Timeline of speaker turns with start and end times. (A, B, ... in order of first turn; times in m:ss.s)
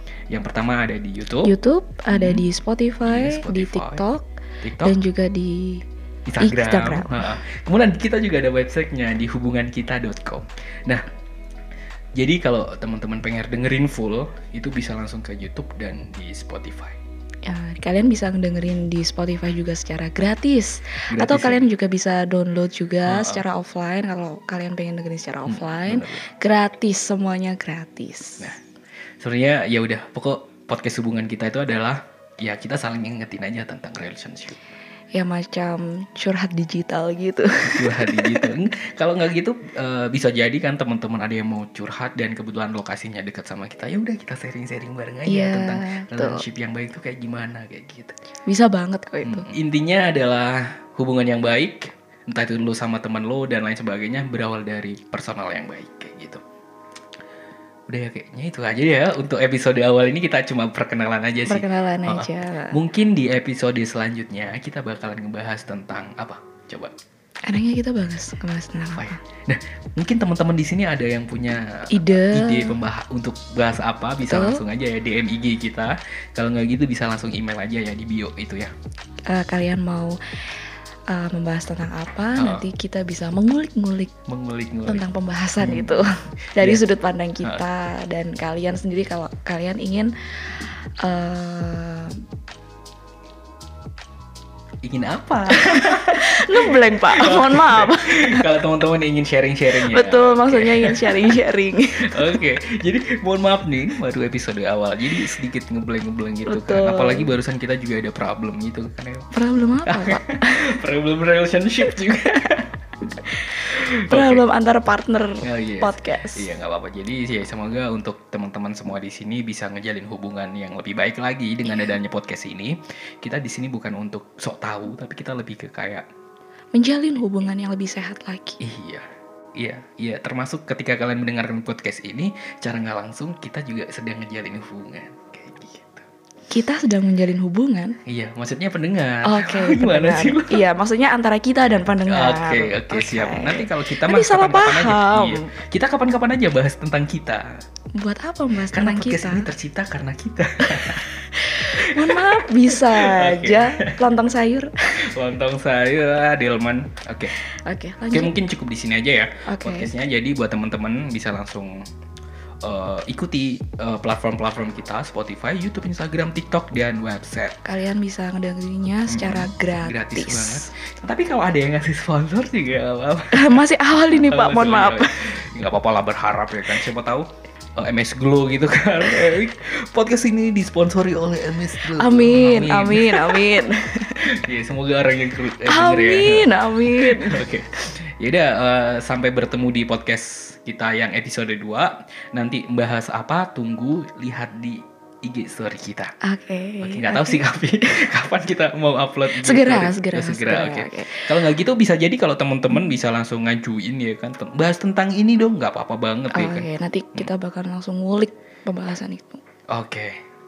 0:00.3-0:01.5 A
0:01.4-0:04.3 B
0:02.1-0:02.4 A
0:03.0-0:04.0 A
0:04.6-0:05.0 A
0:04.8-0:05.8 B
0:06.3-0:11.0 A
0:06.4-0:07.3 B
0:12.2-0:17.0 A
0:17.4-0:28.5 B
0:21.1-0:21.6 A
0:23.1-0:23.4 A
0:25.4-0:26.3 A
0:29.2-0:34.6 A
0:35.1-0:38.5 B
0:37.6-0:48.1 A
0:45.3-0:46.4 B
0:48.5-0:49.5 B
0:49.2-0:56.4 A
0:57.9-1:06.9 A
1:01.5-1:02.8 B
1:07.5-1:09.2 B
1:08.9-1:18.7 A
1:11.9-1:12.8 B
1:14.2-1:14.6 B
1:19.3-1:20.2 B
1:21.1-1:24.1 B
1:22.4-1:22.6 A
1:24.3-1:25.0 A
1:24.9-1:32.2 B
1:25.6-1:26.8 A
1:34.8-1:41.3 A
1:35.5-1:38.5 B
1:39.7-1:42.4 B
1:42.0-1:49.3 A
1:46.5-1:47.3 B
1:49.3-1:50.6 B
1:49.9-1:52.7 A
1:53.2-1:54.4 A
1:54.1-1:56.5 B
1:55.4-2:06.0 A
2:06.7-2:08.6 B
2:08.6-2:16.0 A
2:16.5-2:18.0 B
2:18.0-2:20.6 A
2:19.2-2:25.5 B
2:22.0-2:27.6 A
2:27.9-2:29.5 B
2:28.7-2:34.0 A
2:30.6-2:34.7 B
2:35.0-2:37.3 A
2:37.6-2:38.3 B
2:38.1-2:41.8 A
2:39.5-2:39.9 B
2:42.6-2:47.6 A
2:47.6-2:50.7 B
2:49.1-3:03.6 A
2:53.3-2:55.2 B
3:01.8-3:04.2 B
3:04.1-3:16.1 A
3:05.6-3:07.4 B
3:16.2-3:17.4 B
3:16.8-3:27.3 A
3:19.3-3:21.3 B
3:26.3-3:29.4 B
3:29.7-3:30.2 A